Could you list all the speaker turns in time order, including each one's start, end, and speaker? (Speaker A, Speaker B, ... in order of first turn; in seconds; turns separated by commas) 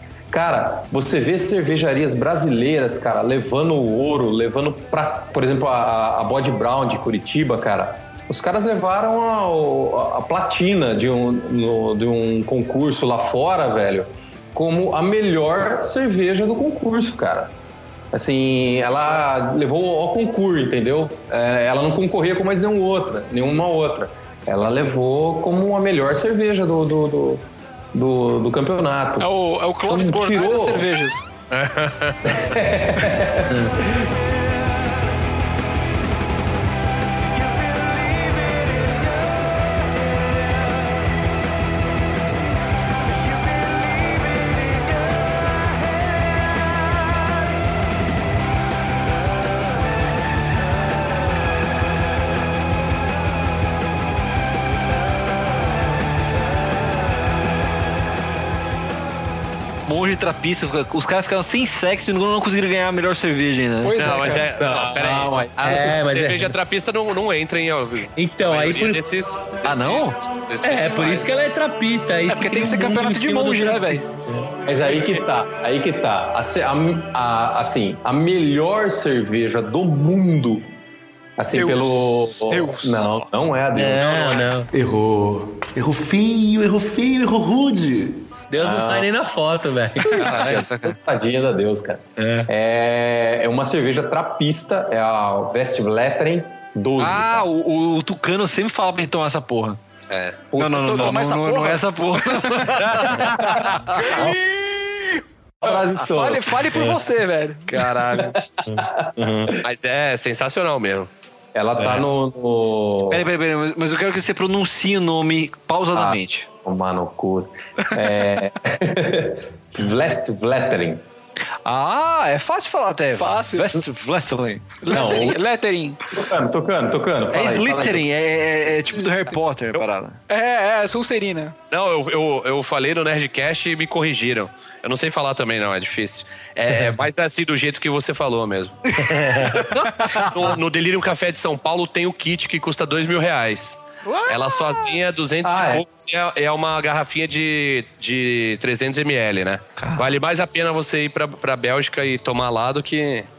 Speaker A: 0.3-17.5, Speaker A: 18.1-29.3, Speaker B: 29.2-31.2, Speaker A: 29.9-30.9, Speaker C: 31.5-32.3, Speaker A: 32.2-33.6, Speaker D: 59.9-64.1, Speaker B: 63.8-64.5, Speaker C: 64.0-71.2, Speaker A: 64.5-66.0, Speaker E: 65.6-66.5, Speaker E: 68.2-69.0, Speaker D: 69.6-70.1, Speaker E: 70.6-74.5, Speaker B: 70.7-71.2, Speaker B: 72.3-74.0, Speaker A: 74.7-80.7, Speaker A: 81.4-84.5, Speaker B: 81.5-83.2, Speaker E: 83.8-84.7, Speaker F: 84.7-88.2, Speaker E: 88.5-90.3, Speaker A: 88.6-89.1, Speaker A: 90.0-97.5, Speaker D: 90.1-91.0, Speaker E: 92.2-92.5, Speaker D: 97.0-99.8, Speaker C: 100.1-100.4, Speaker A: 100.5-101.2, Speaker D: 100.6-103.1, Speaker B: 100.7-103.2, Speaker A: 103.2-104.4, Speaker B: 104.0-104.7, Speaker A: 105.6-106.5, Speaker B: 105.6-107.9, Speaker D: 107.7-108.4, Speaker A: 107.8-109.5, Speaker E: 108.7-109.5, Speaker C: 109.6-111.1, Speaker A: 111.5-113.2, Speaker D: 113.1-116.5, Speaker A: 115.9-121.0, Speaker D: 121.6-124.9, Speaker B: 123.1-123.8, Speaker B: 124.8-126.0, Speaker A: 124.9-125.4, Speaker A: 126.1-128.0, Speaker D: 127.3-130.2, Speaker B: 130.3-131.6, Speaker C: 131.7-153.3, Speaker E: 139.0-139.7, Speaker B: 144.1-144.9, Speaker A: 145.4-145.8